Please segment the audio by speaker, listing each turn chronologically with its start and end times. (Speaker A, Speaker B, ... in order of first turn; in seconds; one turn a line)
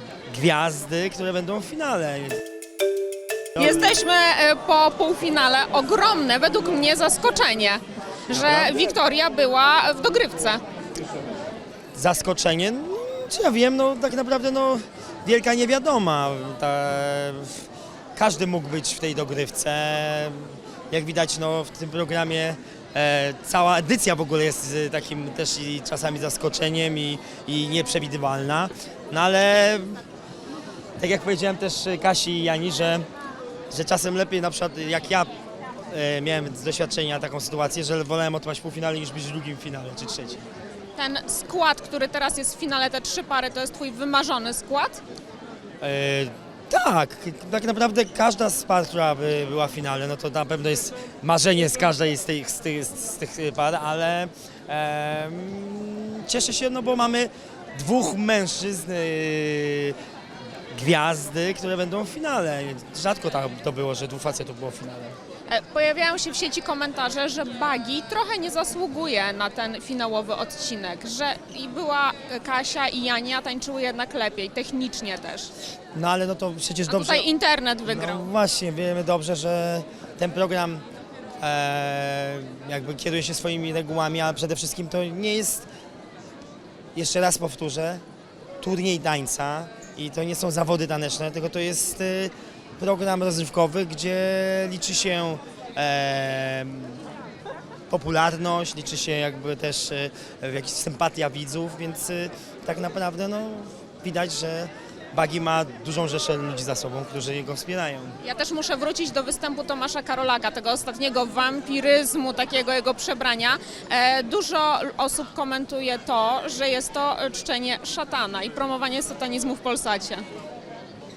Speaker A: 0.3-2.4
Speaker B: 3.6-10.6
Speaker A: 3.6-3.9
Speaker A: 8.3-8.9
Speaker A: 11.9-30.0
Speaker A: 31.0-33.1
Speaker A: 33.7-35.3
Speaker A: 35.9-40.4
Speaker B: 41.0-45.0
Speaker A: 45.8-60.0
Speaker A: 60.7-65.2
Speaker B: 65.5-75.5
Speaker A: 75.9-77.3
Speaker B: 76.9-78.3
Speaker A: 77.9-80.8
Speaker A: 81.4-85.7
Speaker A: 87.0-88.0
Speaker A: 88.6-97.0
Speaker A: 97.9-108.2
Speaker B: 108.2-120.2